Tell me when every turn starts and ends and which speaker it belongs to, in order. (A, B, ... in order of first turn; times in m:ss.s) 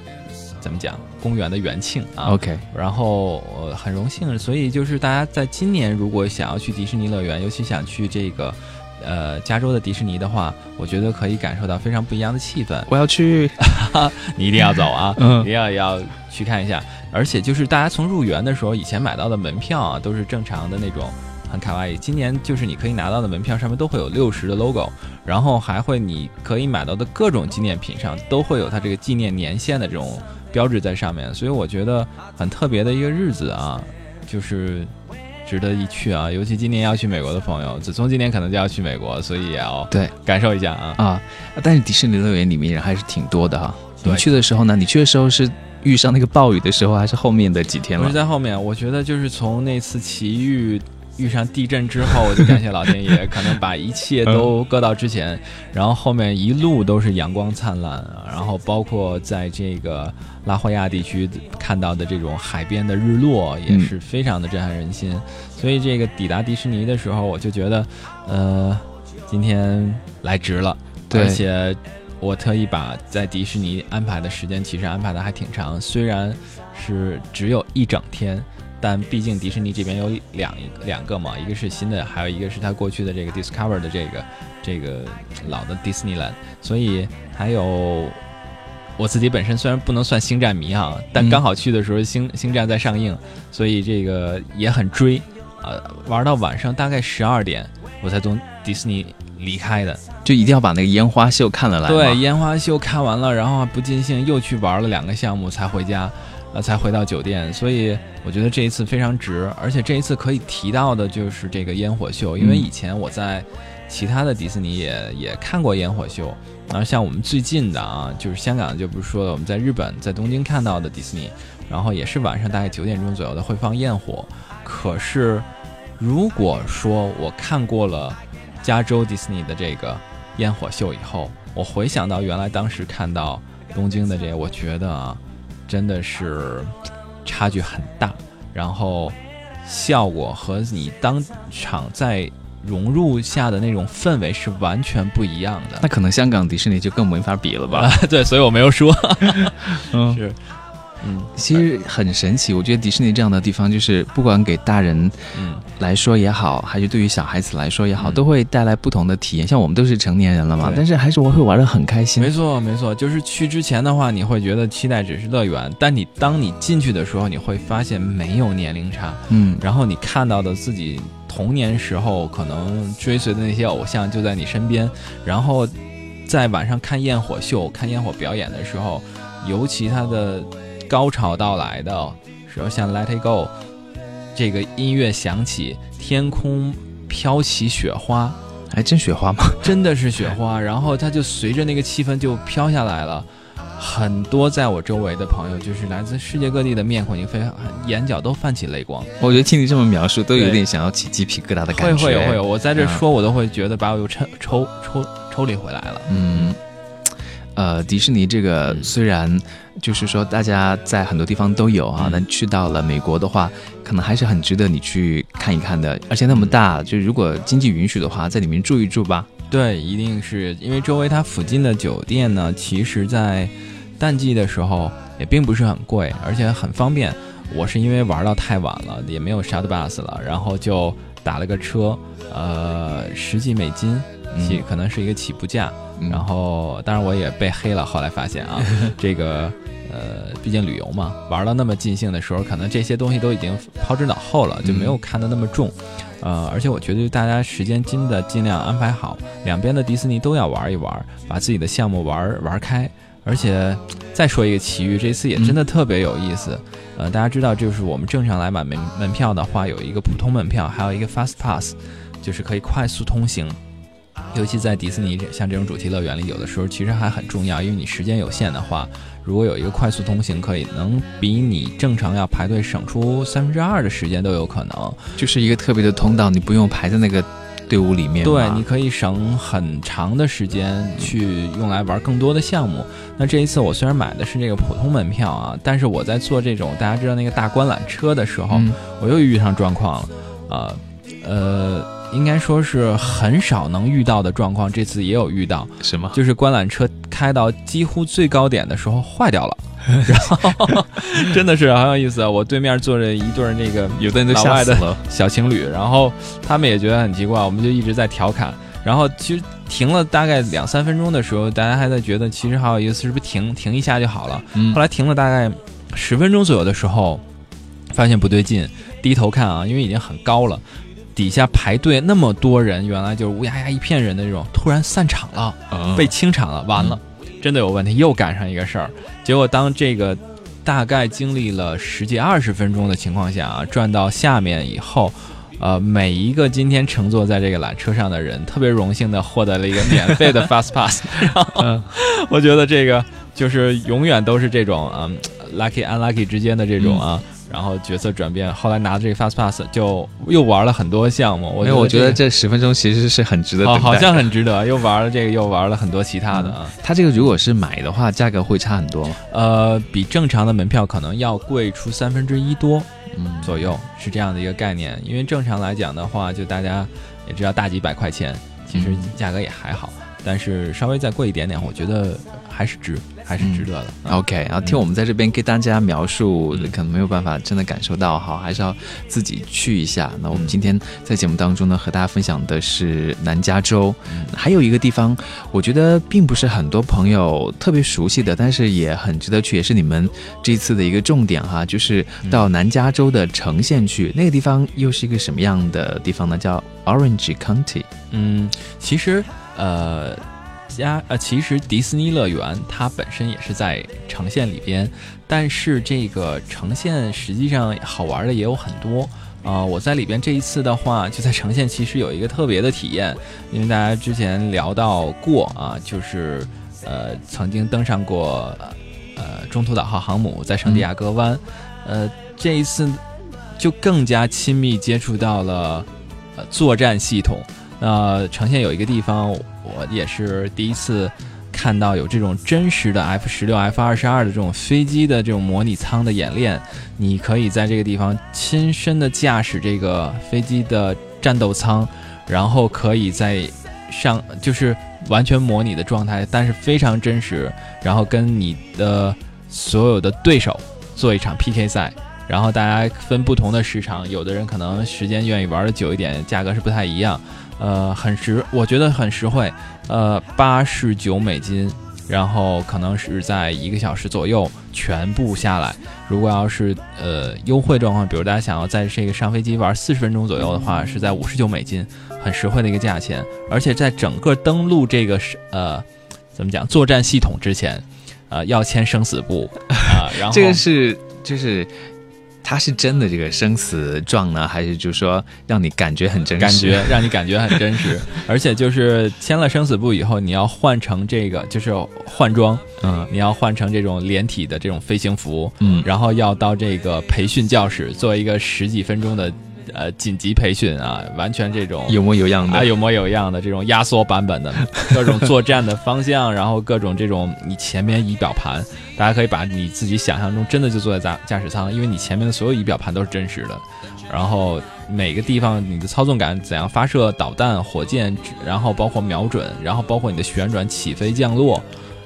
0:00.6-0:12.9 A
0:02.2-0:02.6 B
0:12.9-0:13.6 B
0:13.6-0:34.9 A
0:15.2-0:15.5 B
0:35.4-0:41.0 A
0:41.0-0:48.2 B
0:44.0-0:44.3 A
0:48.0-1:28.2 A
1:11.1-1:11.4 B
1:29.0-1:40.0 A
1:40.2-1:42.2 B
1:41.9-2:05.5 A
1:52.4-1:52.7 B
2:06.0-2:25.9 A
2:25.8-2:27.9 B
2:27.7-2:30.4 A
2:29.9-2:30.2 B
2:31.0-2:31.6 A
2:31.4-2:42.3 B
2:35.3-2:35.6 A
2:42.2-2:55.7 A
2:49.3-2:49.6 B
2:56.3-3:03.5 A
3:04.3-3:08.4 A
3:08.7-3:09.7 B
3:09.6-3:19.1 A
3:19.2-3:23.0 B
3:20.3-3:20.6 A
3:21.7-3:26.5 A
3:26.1-3:26.6 B
3:27.6-3:39.3 B
3:32.0-3:32.2 A
3:39.5-4:23.6 A
3:54.3-3:54.6 B
3:56.0-3:56.3 B
4:04.6-4:05.0 B
4:24.3-4:35.1 A
4:35.2-4:38.6 B
4:38.2-5:17.2 A
4:48.5-4:48.8 B
4:55.8-4:56.2 B
5:04.0-5:05.0 B
5:14.5-5:14.8 B
5:17.9-5:20.6 A
5:21.2-5:52.2 A
5:25.7-5:26.1 B
5:41.6-5:41.9 B
5:46.8-5:47.0 B
5:51.6-5:54.3 B
5:53.6-5:56.8 A
5:56.3-5:59.2 B
5:59.3-6:02.9 A
6:03.1-6:03.6 B
6:03.4-6:14.8 A
6:08.7-6:09.1 B
6:13.4-6:37.9 B
6:24.1-6:24.3 A
6:32.2-6:32.5 A
6:38.1-7:03.0 A
7:03.6-8:00.6 A
8:00.2-8:01.7 B
8:02.4-8:07.1 B
8:06.4-8:41.7 A
8:12.8-8:13.1 B
8:15.6-8:15.9 B
8:21.9-8:22.7 B